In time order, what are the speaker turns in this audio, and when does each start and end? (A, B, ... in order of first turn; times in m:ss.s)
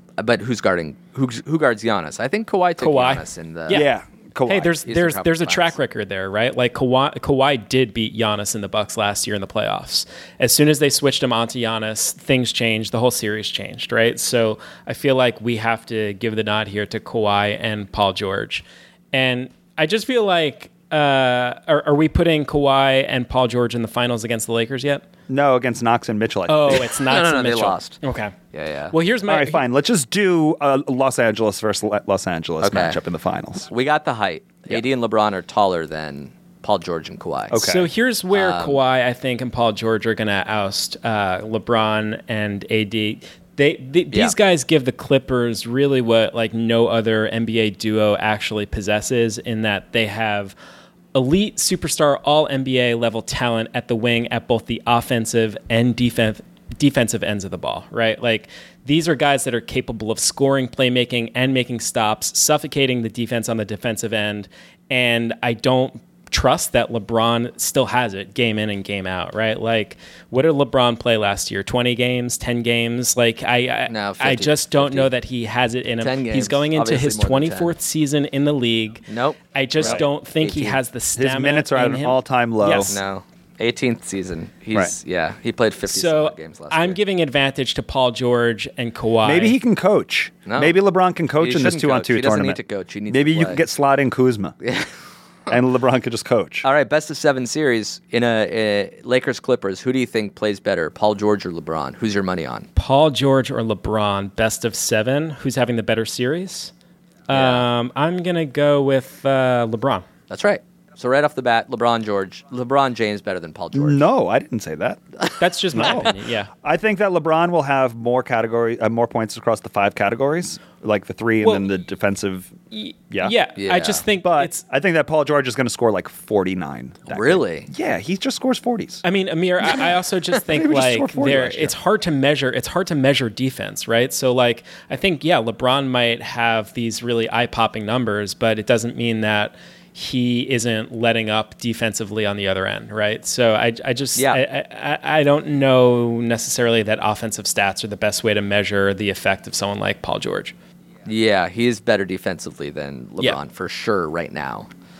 0:00.2-0:03.9 A
0:02.8-0:03.9 B
0:03.7-0:04.8 C
0:04.5-0:25.0 B
0:04.8-0:05.7 A
0:25.3-0:26.8 C
0:26.5-0:28.3 B
0:26.7-0:28.0 A
0:28.5-0:28.9 A
0:28.9-0:29.6 B
0:29.3-0:33.7 C
0:32.6-0:33.0 A
0:33.7-0:37.7 A
0:37.5-0:37.9 C
0:37.6-0:50.5 B
0:38.3-0:38.8 A
0:51.1-1:23.0 B
1:13.9-1:15.1 A
1:16.0-1:17.7 A
1:19.1-1:20.8 A
1:21.2-1:23.0 C
1:22.9-1:27.0 A
1:25.9-1:29.6 B
1:29.2-1:34.6 C
1:30.4-1:30.8 A
1:31.4-1:33.6 A
1:34.6-1:34.9 A
1:35.5-1:36.6 C
1:36.6-1:42.7 A
1:42.8-1:46.7 B
1:47.3-1:50.0 B
1:47.3-1:47.6 A
1:50.3-1:54.0 A
1:53.7-1:55.0 C
1:55.2-1:56.1 A
1:55.4-1:56.5 B
1:55.7-2:02.5 C
2:01.4-2:01.7 B
2:02.7-2:04.6 B
2:03.6-2:04.0 A
2:04.2-2:09.0 C
2:07.1-2:07.7 A
2:09.0-2:30.5 B
2:10.4-2:11.7 C
2:24.2-2:24.4 A
2:31.0-2:34.7 A